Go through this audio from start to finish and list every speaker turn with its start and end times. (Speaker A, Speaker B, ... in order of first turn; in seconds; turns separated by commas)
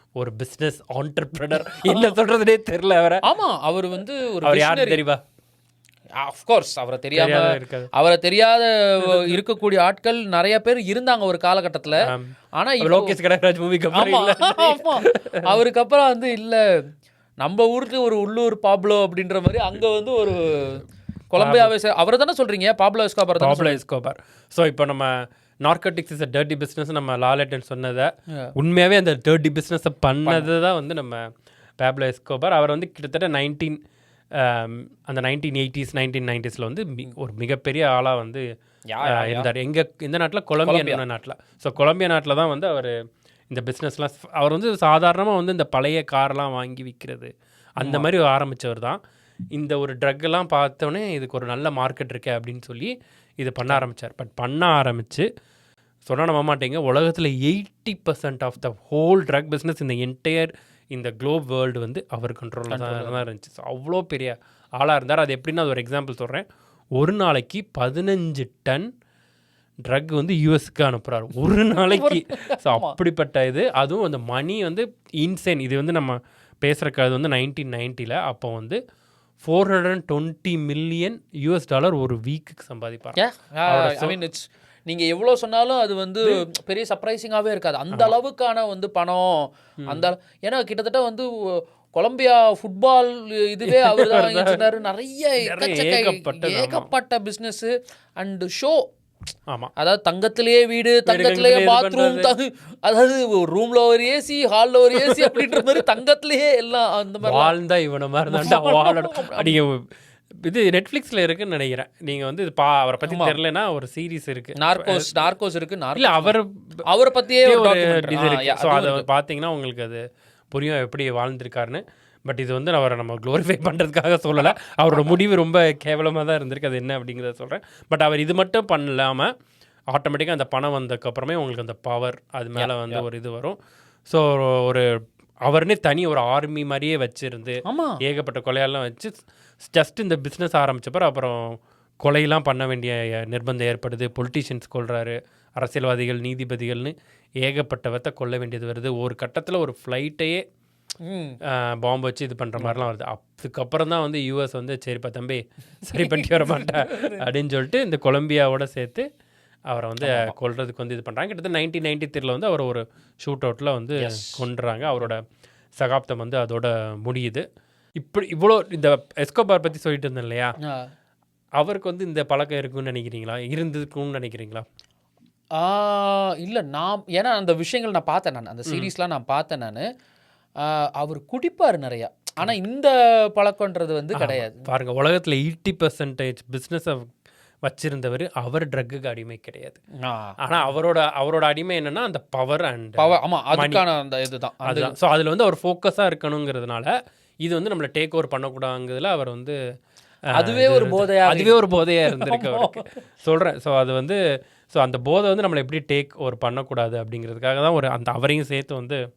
Speaker A: 0.2-3.2, Speaker B: 3.2-5.0, Speaker A: 4.4-5.2, Speaker B: 6.2-12.0, Speaker A: 7.1-7.9, Speaker A: 12.0-15.4, Speaker B: 12.5-13.2, Speaker B: 13.9-16.6, Speaker B: 17.4-23.8, Speaker A: 21.4-21.7, Speaker A: 23.4-31.2, Speaker B: 30.2-30.5, Speaker A: 31.8-33.8, Speaker A: 34.4-38.4, Speaker B: 38.9-39.5, Speaker A: 39.0-42.9, Speaker B: 40.6-41.0, Speaker A: 43.5-49.0, Speaker B: 47.8-48.1, Speaker A: 49.5-55.2, Speaker A: 56.1-66.4, Speaker B: 62.7-63.2, Speaker A: 67.0-68.8, Speaker A: 69.8-78.8, Speaker B: 71.8-72.9, Speaker A: 79.4-84.2, Speaker B: 83.2-98.8, Speaker A: 89.8-90.1, Speaker A: 93.7-94.6, Speaker A: 95.4-96.9, Speaker B: 99.8-107.5, Speaker A: 101.0-102.3, Speaker A: 105.0-105.8, Speaker A: 107.2-109.8, Speaker B: 108.3-109.5, Speaker A: 110.4-115.2, Speaker B: 113.1-113.3, Speaker B: 114.6-116.3, Speaker A: 116.0-116.5, Speaker B: 116.9-119.0, Speaker A: 117.4-120.0, Speaker A: 120.5-129.3, Speaker B: 124.4-125.2, Speaker A: 129.9-133.6, Speaker B: 132.6-133.0, Speaker A: 134.1-134.8, Speaker A: 135.4-150.4, Speaker B: 137.7-138.0, Speaker B: 151.0-151.4, Speaker A: 151.5-159.0, Speaker B: 156.0-157.1, Speaker A: 159.7-165.2, Speaker B: 160.0-160.3, Speaker B: 164.0-164.4, Speaker A: 165.8-167.4, Speaker A: 168.0-170.5, Speaker A: 171.6-174.6, Speaker B: 175.6-179.8, Speaker B: 180.6-184.6, Speaker A: 184.1-187.0, Speaker A: 187.6-189.8, Speaker B: 190.0-190.3, Speaker A: 190.4-193.8, Speaker B: 193.0-194.9, Speaker A: 194.6-196.9, Speaker A: 197.4-199.6, Speaker B: 200.3-202.9, Speaker A: 200.4-204.2, Speaker A: 204.7-209.0